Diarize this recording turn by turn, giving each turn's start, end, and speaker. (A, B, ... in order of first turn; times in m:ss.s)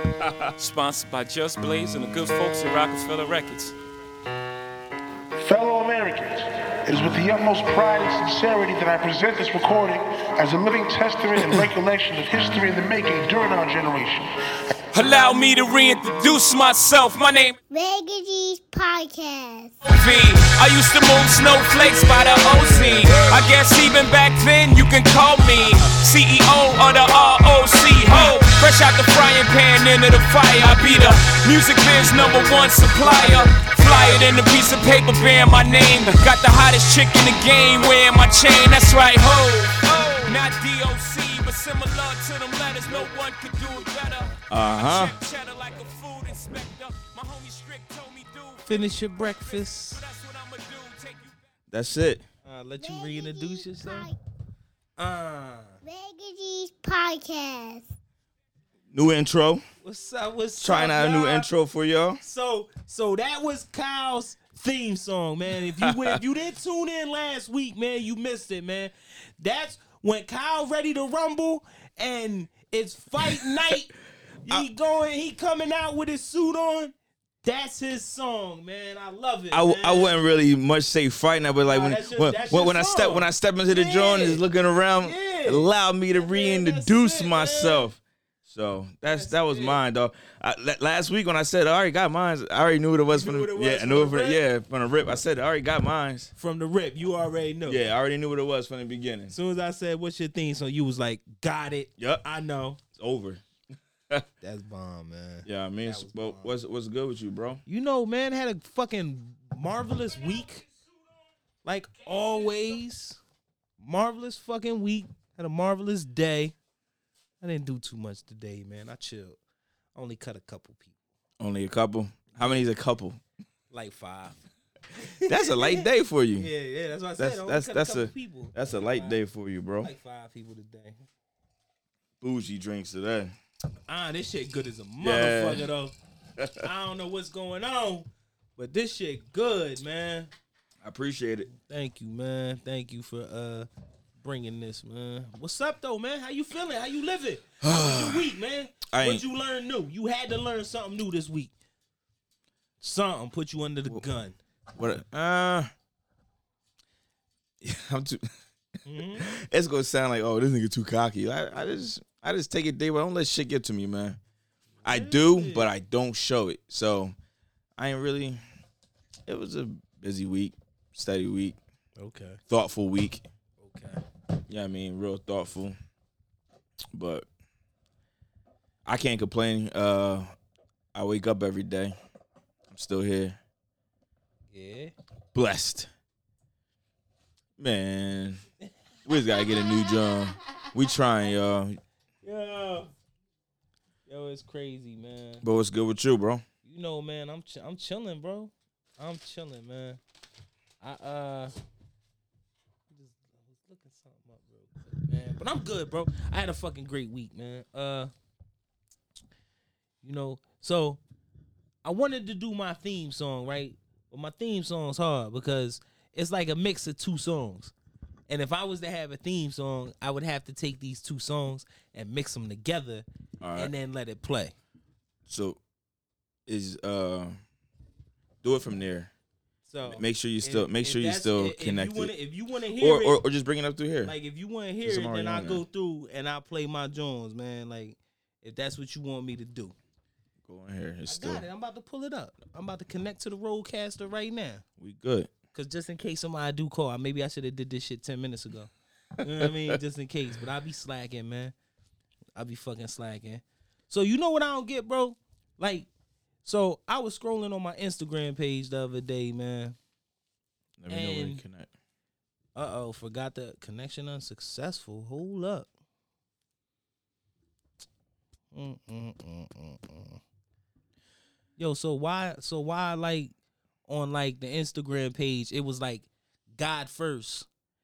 0:00.4-0:03.7 A
0:05.4-0:14.2 B
0:14.9-0:17.6 A
0:17.7-0:19.8 C
0:19.8-0:51.4 A
0:21.8-0:23.3 D
0:33.0-0:33.3 E
0:42.8-0:44.4 E
0:44.5-0:45.1 D
0:48.6-0:50.0 E
0:51.7-0:52.2 D
0:52.4-0:54.1 E
0:52.8-0:54.2 C
0:55.0-0:55.8 E
0:55.8-0:57.9 C
0:58.9-0:59.6 D
0:59.8-1:01.5 E
1:00.6-1:02.2 D
1:02.2-1:16.9 E
1:17.4-1:20.2 E
1:19.5-1:36.3 D
1:21.6-1:24.4 E
1:25.0-1:27.9 E
1:29.1-1:29.8 E
1:33.1-1:34.4 E
1:36.4-1:37.8 E
1:37.6-1:39.3 D
1:39.3-1:42.8 E
1:42.0-1:42.2 D
1:42.9-1:43.4 D
1:44.4-1:46.6 E
1:45.4-1:47.6 D
1:47.6-1:50.7 E
1:51.6-1:53.2 E
1:53.8-1:56.5 E
1:57.4-1:59.4 E
1:59.9-2:01.0 E
2:01.4-2:03.2 D
2:02.3-2:02.6 E
2:03.7-2:04.4 E
2:04.9-2:09.2 E
2:05.3-2:06.5 D
2:07.2-2:09.9 D
2:09.8-2:11.0 E
2:12.2-2:13.3 D
2:13.9-2:15.9 E
2:15.0-2:15.7 D
2:16.4-2:16.6 D
2:16.6-2:20.3 E
2:20.8-2:21.5 D
2:21.5-2:23.7 E
2:24.2-2:31.5 E
2:27.6-2:28.2 D
2:28.9-2:29.2 D
2:32.8-2:34.4 E
2:34.8-2:35.7 D
2:37.6-2:38.3 D
2:38.8-2:39.3 E
2:39.1-2:44.2 D
2:44.8-2:45.7 E
2:44.8-2:47.1 D
2:47.8-2:48.4 D
2:49.3-2:51.6 D
2:52.0-2:52.4 E
2:52.5-2:53.2 D
2:53.6-2:54.0 E
2:54.5-2:55.8 D
2:56.9-2:57.2 D
2:58.8-3:00.3 D
3:00.9-3:02.0 D
3:02.7-3:03.4 D
3:04.5-3:04.9 E
3:05.3-3:05.9 D
3:07.6-3:08.4 D
3:09.0-3:11.8 D
3:09.1-3:10.1 E
3:12.2-3:12.9 E
3:14.1-3:15.4 E
3:15.4-3:16.4 D
3:16.6-3:20.0 E
3:20.8-3:21.5 E
3:22.9-3:28.1 E
3:30.0-3:31.0 E
3:31.8-3:37.7 E
3:38.3-3:44.5 E
3:43.4-3:43.7 D
3:45.3-3:45.6 D
3:46.5-3:47.4 D
3:48.4-3:49.1 D
3:49.6-3:53.2 E
3:49.8-3:52.1 D
3:52.8-3:54.1 D
3:54.0-3:59.7 E
3:54.8-3:55.6 D
4:00.4-4:01.4 D
4:01.0-4:04.6 E
4:04.8-4:05.3 D
4:05.5-4:11.5 E
4:12.4-4:15.9 E
4:16.4-4:19.8 E
4:20.8-4:21.7 D
4:20.9-4:21.4 E
4:22.5-4:25.7 E
4:28.5-4:30.2 E
4:31.6-4:33.3 E
4:33.9-4:37.5 E